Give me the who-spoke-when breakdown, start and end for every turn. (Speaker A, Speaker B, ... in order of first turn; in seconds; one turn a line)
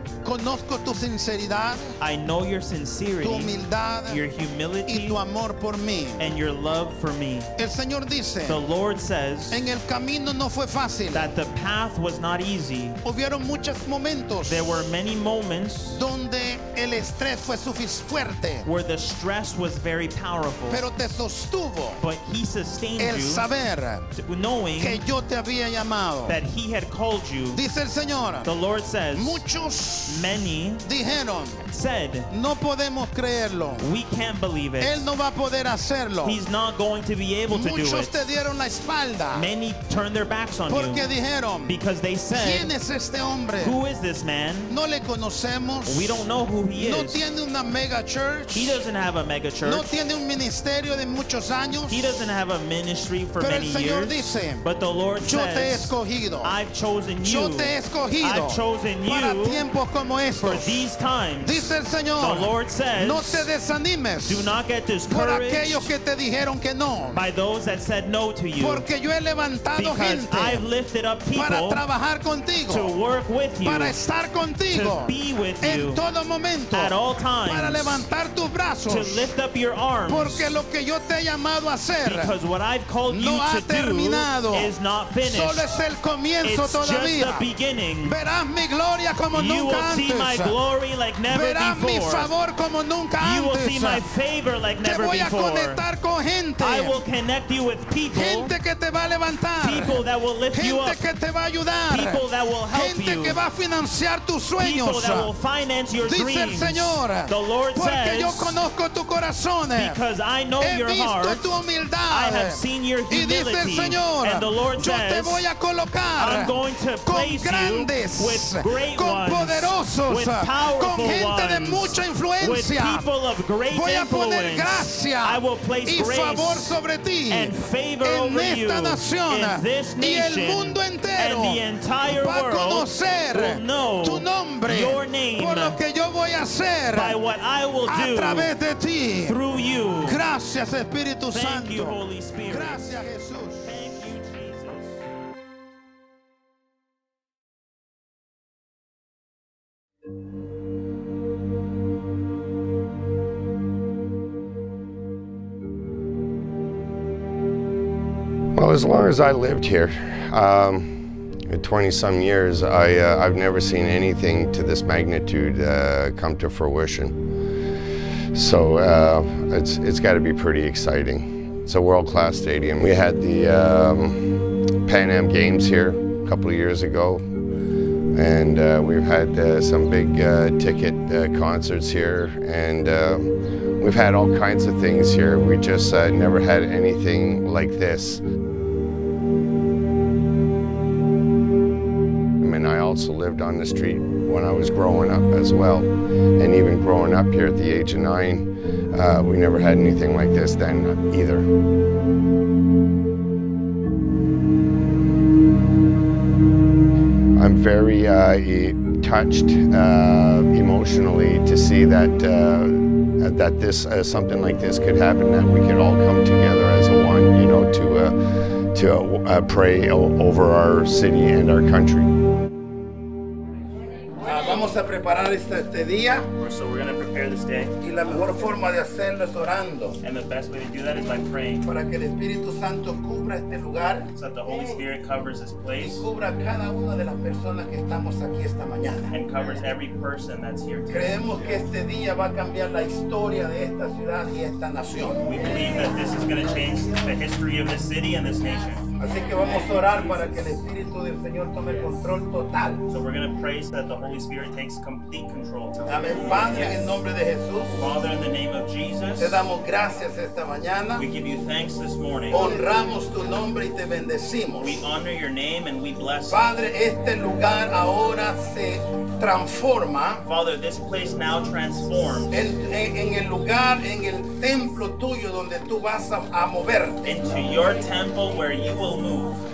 Speaker A: 0.2-1.9
Speaker B: 2.0-3.5
Speaker A: 3.2-4.2
Speaker B: 4.1-5.2
Speaker A: 4.9-6.2
Speaker B: 6.2-7.5
Speaker A: 7.6-8.6
Speaker B: 8.5-9.6
Speaker A: 9.5-11.2
Speaker B: 11.1-13.0
Speaker A: 13.0-14.7
Speaker B: 14.5-16.0
Speaker A: 15.9-18.6
Speaker B: 18.6-20.9
Speaker A: 20.7-22.0
Speaker B: 22.0-23.4
Speaker A: 23.0-24.1
Speaker B: 24.1-25.0
Speaker A: 24.8-26.4
Speaker B: 26.3-27.6
Speaker A: 27.5-28.5
Speaker B: 28.4-29.4
Speaker A: 29.1-31.6
Speaker B: 30.1-30.8
Speaker B: 31.7-32.3
Speaker A: 32.3-33.8
Speaker B: 33.8-35.1
Speaker A: 34.8-36.4
Speaker B: 36.2-38.1
Speaker A: 37.5-39.5
Speaker B: 39.3-41.0
Speaker A: 40.7-41.7
Speaker B: 41.6-42.7
Speaker A: 42.3-43.8
Speaker B: 43.6-44.7
Speaker A: 44.7-46.2
Speaker B: 45.9-47.2
Speaker A: 46.8-48.8
Speaker B: 48.5-49.8
Speaker A: 49.6-52.0
Speaker B: 51.9-59.6
Speaker A: 53.4-54.6
Speaker A: 55.2-56.5
Speaker A: 57.2-60.8
Speaker B: 60.4-61.6
Speaker A: 61.4-64.5
Speaker B: 62.2-63.5
Speaker B: 64.2-65.9
Speaker A: 65.1-67.2
Speaker B: 67.1-68.9
Speaker A: 68.6-70.6
Speaker B: 69.8-71.8
Speaker A: 71.3-72.9
Speaker B: 72.7-74.0
Speaker A: 73.6-77.0
Speaker B: 74.7-76.0
Speaker B: 76.7-78.1
Speaker A: 77.5-79.2
Speaker B: 78.9-80.5
Speaker A: 80.1-82.3
Speaker B: 82.0-85.7
Speaker A: 83.1-84.7
Speaker A: 85.3-87.4
Speaker B: 86.4-88.2
Speaker A: 88.0-90.5
Speaker B: 89.3-92.3
Speaker A: 91.3-94.0
Speaker B: 93.2-95.8
Speaker A: 94.8-97.0
Speaker B: 96.6-98.5
Speaker A: 98.1-99.9
Speaker B: 99.6-101.0
Speaker A: 100.5-102.2
Speaker B: 101.9-103.4
Speaker A: 102.7-105.3
Speaker B: 104.6-108.6
Speaker A: 106.0-110.0
Speaker B: 109.8-115.4
Speaker A: 110.6-116.5
Speaker B: 116.2-126.8
Speaker A: 117.1-123.0
Speaker A: 123.7-137.2
Speaker B: 127.3-135.8
Speaker B: 136.9-138.5
Speaker A: 137.9-139.4
Speaker B: 139.3-140.2
Speaker A: 140.1-142.0
Speaker B: 141.3-142.9
Speaker A: 142.5-143.6
Speaker B: 143.6-145.0
Speaker C: 158.5-167.2
Speaker C: 168.3-177.2
Speaker C: 178.1-188.2
Speaker C: 192.4-201.5
Speaker C: 207.4-218.1
Speaker C: 218.7-222.1
Speaker D: 224.2-226.3
Speaker B: 226.4-227.8
Speaker D: 227.8-230.0
Speaker B: 230.0-231.6
Speaker D: 231.6-234.1
Speaker B: 234.1-236.0
Speaker D: 235.8-239.1
Speaker B: 239.1-241.1
Speaker D: 240.9-245.2
Speaker B: 245.2-248.8
Speaker D: 249.0-252.8
Speaker B: 252.9-256.9
Speaker D: 255.9-257.7
Speaker B: 257.7-259.4
Speaker D: 259.2-261.0
Speaker B: 261.0-262.5
Speaker D: 262.3-264.7
Speaker B: 264.6-266.4
Speaker D: 266.3-270.2
Speaker B: 270.2-272.3
Speaker D: 272.3-277.0
Speaker B: 277.0-279.4